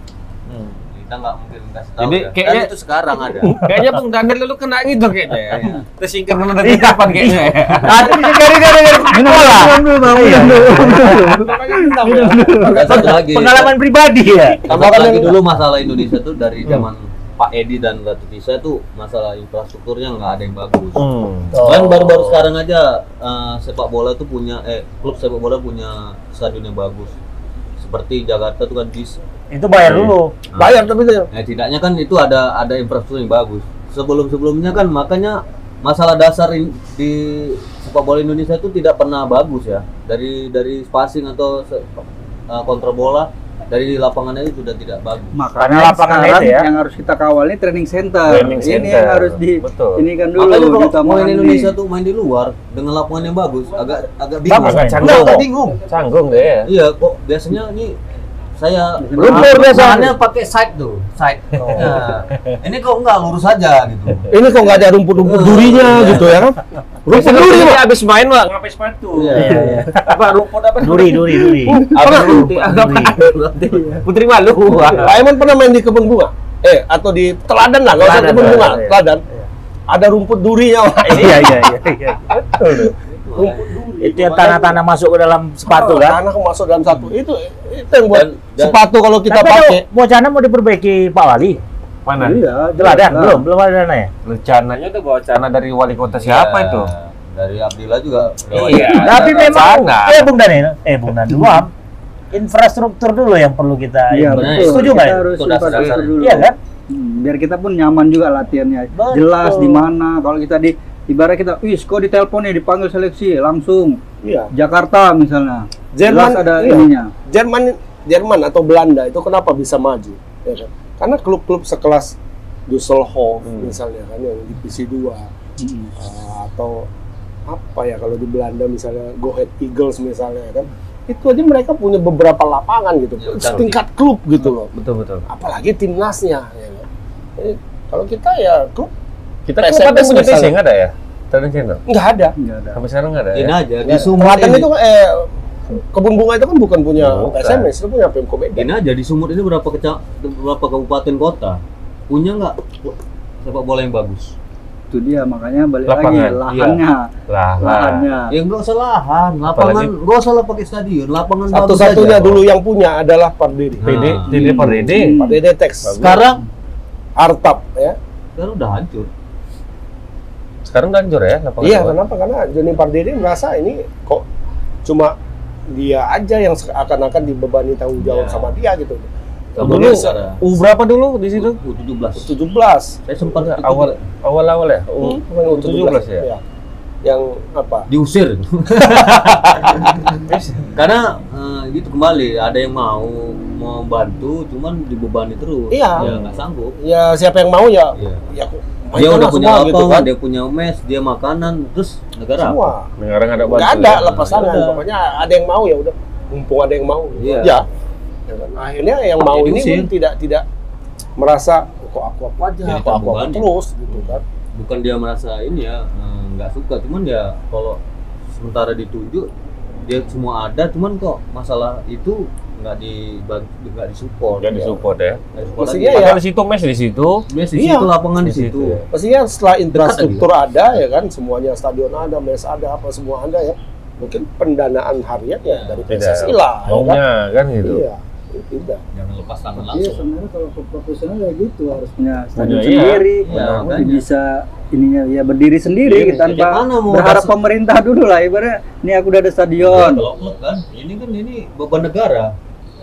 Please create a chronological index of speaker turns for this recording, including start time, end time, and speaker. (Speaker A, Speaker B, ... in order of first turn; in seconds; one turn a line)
Speaker A: 0.5-3.6
Speaker B: 2.0-2.7
Speaker B: 3.5-8.3
Speaker C: 3.5-3.9
Speaker A: 5.5-5.8
Speaker C: 6.6-11.4
Speaker D: 9.1-13.0
Speaker B: 9.2-9.5
Speaker E: 11.3-12.7
Speaker A: 12.6-13.7
Speaker C: 12.7-14.7
Speaker A: 14.7-21.0
Speaker E: 14.7-15.3
Speaker B: 20.9-21.6
Speaker C: 21.5-22.4
Speaker A: 21.6-27.1
Speaker A: 27.8-29.2
Speaker C: 29.5-30.3
Speaker B: 29.8-30.1
Speaker A: 30.5-45.3
Speaker E: 30.6-31.3
Speaker D: 45.3-51.7
Speaker C: 45.6-46.7
Speaker B: 48.2-50.0
Speaker A: 50.4-55.8
Speaker C: 54.5-55.4
Speaker B: 54.6-56.7
Speaker A: 56.6-58.0
Speaker A: 58.6-66.5
Speaker D: 59.0-59.8
Speaker B: 59.2-60.1
Speaker C: 59.3-59.6
Speaker B: 61.7-62.2
Speaker E: 64.3-67.8
Speaker B: 65.9-66.4
Speaker B: 67.1-75.2
Speaker A: 69.2-69.6
Speaker D: 69.3-69.8
Speaker C: 69.3-69.9
Speaker C: 70.8-73.2
Speaker D: 71.7-72.4
Speaker D: 73.6-74.0
Speaker E: 74.9-79.2
Speaker C: 78.0-79.0
Speaker B: 78.2-78.6
Speaker E: 79.9-81.7
Speaker C: 81.0-82.5
Speaker E: 82.3-84.8
Speaker A: 83.2-83.7
Speaker C: 84.0-86.2
Speaker E: 85.7-89.8
Speaker A: 88.1-88.8
Speaker C: 89.3-91.6
Speaker B: 92.0-92.5
Speaker D: 92.1-93.4
Speaker C: 92.8-94.1
Speaker B: 94.2-96.9
Speaker A: 96.2-99.8
Speaker B: 98.5-100.3
Speaker C: 99.0-101.7
Speaker D: 101.3-101.6
Speaker C: 102.3-105.3
Speaker D: 104.1-114.0
Speaker A: 104.3-106.3
Speaker C: 106.2-106.6
Speaker C: 108.9-109.8
Speaker E: 114.2-114.5
Speaker D: 114.5-117.1
Speaker E: 116.0-122.1
Speaker E: 122.7-125.3
Speaker B: 123.4-123.8
Speaker D: 125.6-125.9
Speaker E: 126.0-126.9
Speaker E: 127.5-134.7
Speaker A: 133.2-133.8
Speaker B: 134.5-135.2
Speaker E: 135.3-138.9
Speaker B: 139.5-141.8
Speaker E: 139.6-140.6
Speaker E: 141.9-142.3
Speaker D: 142.4-142.8
Speaker B: 142.7-143.5
Speaker A: 143.3-144.7
Speaker E: 143.8-148.7
Speaker B: 147.0-147.6
Speaker A: 148.5-154.3
Speaker D: 154.9-158.3
Speaker B: 155.8-158.1
Speaker A: 158.3-162.4
Speaker B: 159.5-159.9
Speaker E: 161.5-164.0
Speaker A: 163.8-164.7
Speaker B: 163.8-165.2
Speaker D: 164.3-165.4
Speaker E: 164.8-166.2
Speaker B: 165.8-166.2
Speaker A: 166.0-166.4
Speaker E: 167.2-168.0
Speaker A: 168.4-169.1
Speaker B: 170.7-171.9
Speaker E: 171.6-174.2
Speaker E: 174.8-175.1
Speaker E: 175.7-180.1
Speaker A: 178.0-178.5
Speaker A: 179.6-180.4
Speaker B: 179.6-181.6
Speaker A: 181.4-182.3
Speaker E: 182.1-183.0
Speaker A: 183.1-184.0
Speaker B: 183.2-186.3
Speaker E: 185.0-186.4
Speaker E: 187.0-187.9
Speaker A: 187.9-196.8
Speaker B: 188.9-189.4
Speaker E: 195.7-196.1
Speaker B: 196.0-196.3
Speaker E: 196.8-200.1
Speaker A: 198.0-198.2
Speaker A: 198.9-202.7
Speaker E: 202.4-202.9
Speaker B: 203.0-204.1
Speaker E: 203.4-207.7
Speaker A: 203.8-204.8
Speaker A: 207.2-207.6
Speaker E: 208.3-210.4
Speaker A: 209.2-209.9
Speaker E: 211.2-214.2
Speaker A: 212.6-217.8
Speaker A: 218.3-219.3
Speaker A: 219.8-224.8
Speaker B: 224.4-225.2
Speaker A: 225.3-226.2
Speaker E: 225.6-226.2
Speaker B: 225.9-227.2
Speaker A: 227.3-228.8
Speaker E: 227.5-227.9
Speaker B: 228.2-228.8
Speaker E: 228.9-237.0
Speaker A: 229.7-230.2
Speaker A: 235.4-236.0
Speaker B: 235.9-237.8
Speaker E: 237.6-238.8
Speaker A: 238.9-240.0
Speaker D: 239.7-250.1
Speaker B: 242.4-243.7
Speaker A: 243.3-244.1
Speaker B: 245.8-246.4
Speaker A: 246.3-247.3
Speaker A: 249.6-252.3